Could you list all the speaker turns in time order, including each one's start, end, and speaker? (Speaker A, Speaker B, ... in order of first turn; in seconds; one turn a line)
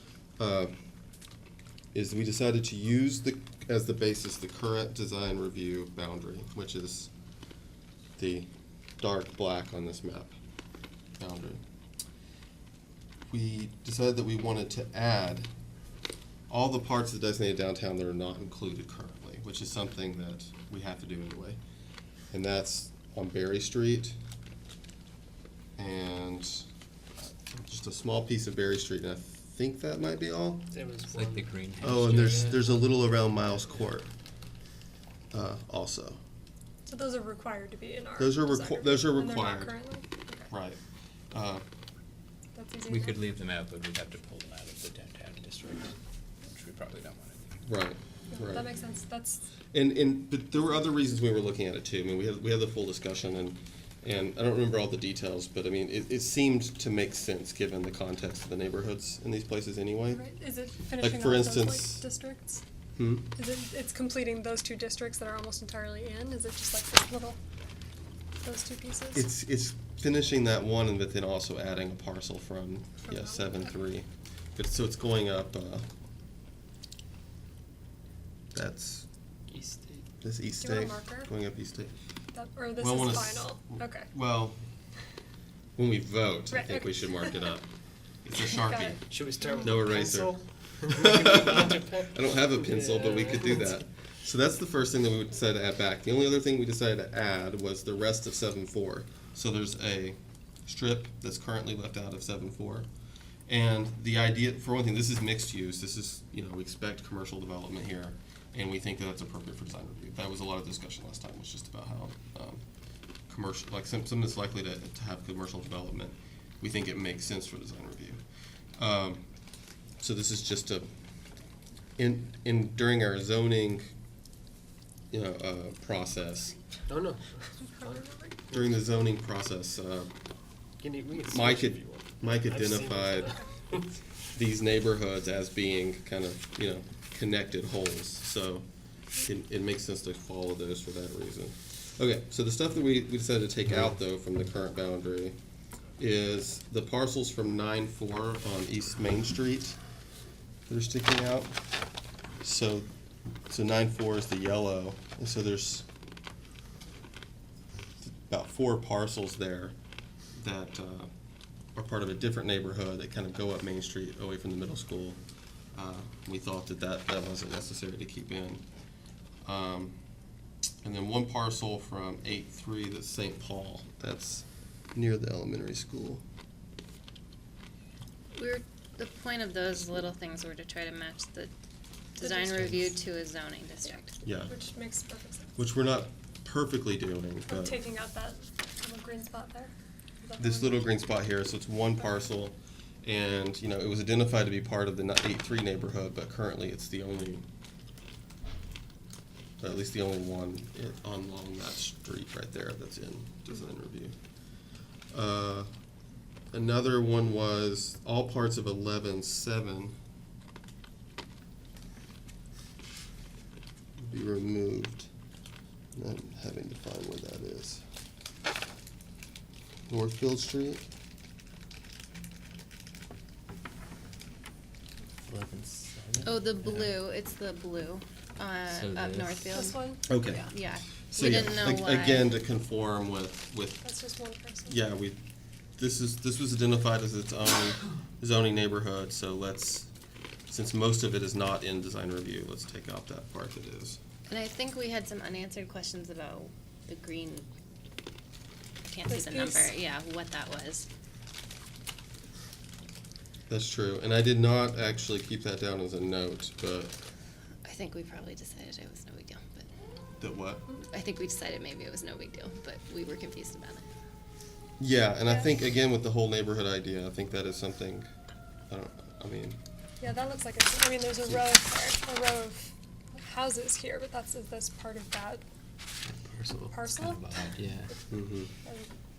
Speaker A: 0.4-0.7
Speaker A: 1.9-7.1
Speaker A: 8.2-8.5
Speaker A: 9.0-10.3
Speaker A: 11.2-11.6
Speaker A: 13.3-15.5
Speaker A: 16.5-21.6
Speaker A: 22.3-24.2
Speaker A: 25.8-26.6
Speaker A: 27.5-30.7
Speaker B: 30.7-32.7
Speaker C: 31.1-32.6
Speaker A: 31.8-34.1
Speaker A: 35.3-36.2
Speaker D: 36.9-40.5
Speaker A: 38.2-39.7
Speaker A: 40.5-40.8
Speaker A: 41.3-41.6
Speaker D: 42.5-43.2
Speaker C: 42.9-45.9
Speaker C: 46.4-47.5
Speaker A: 47.6-48.7
Speaker D: 48.3-49.4
Speaker A: 49.7-60.2
Speaker D: 60.1-62.6
Speaker A: 61.0-62.0
Speaker A: 63.0-63.3
Speaker D: 63.3-67.4
Speaker D: 68.4-69.3
Speaker A: 69.1-75.9
Speaker D: 73.0-73.7
Speaker A: 78.5-79.0
Speaker B: 79.5-80.1
Speaker A: 80.2-81.9
Speaker D: 80.6-81.3
Speaker D: 82.3-84.1
Speaker A: 82.8-84.6
Speaker A: 85.8-87.7
Speaker D: 86.5-87.5
Speaker A: 88.2-102.9
Speaker D: 88.6-89.8
Speaker B: 89.0-93.7
Speaker A: 103.5-112.6
Speaker A: 113.3-118.2
Speaker A: 118.8-119.2
Speaker A: 120.0-120.9
Speaker A: 122.0-123.9
Speaker A: 125.1-126.5
Speaker B: 126.9-128.8
Speaker D: 127.7-128.3
Speaker A: 128.5-130.1
Speaker B: 130.8-133.8
Speaker A: 131.2-133.3
Speaker A: 134.3-138.7
Speaker A: 139.2-145.4
Speaker A: 146.0-149.8
Speaker A: 150.7-151.5
Speaker A: 152.4-152.9
Speaker A: 153.5-155.8
Speaker A: 158.0-159.7
Speaker A: 160.3-161.1
Speaker A: 161.7-165.2
Speaker A: 165.7-168.6
Speaker A: 169.4-170.0
Speaker A: 170.8-176.2
Speaker E: 178.3-181.5
Speaker E: 182.2-184.1
Speaker D: 182.2-182.9
Speaker A: 184.2-184.5
Speaker D: 184.3-185.5
Speaker A: 185.6-187.8
Speaker D: 187.5-190.8
Speaker A: 190.4-197.4
Speaker A: 199.6-204.1
Speaker A: 205.1-205.7
Speaker A: 206.5-209.9
Speaker A: 214.0-215.1
Speaker A: 215.9-217.8
Speaker A: 219.9-220.8
Speaker C: 225.3-226.9
Speaker E: 226.2-232.3
Speaker C: 228.7-229.6
Speaker D: 229.5-230.1
Speaker A: 230.0-233.8
Speaker D: 233.8-234.8
Speaker A: 234.7-235.2
Speaker A: 235.8-239.9
Speaker A: 240.5-244.0
Speaker E: 244.3-247.5
Speaker E: 248.8-250.9
Speaker D: 249.1-249.7
Speaker A: 253.5-256.9
Speaker E: 257.6-259.7
Speaker A: 260.2-260.7
Speaker E: 260.9-263.8
Speaker A: 264.8-268.1
Speaker D: 265.3-265.5
Speaker A: 268.7-269.6
Speaker D: 270.0-275.4
Speaker C: 276.1-277.9
Speaker D: 276.7-277.9
Speaker A: 278.1-278.5
Speaker D: 278.6-278.9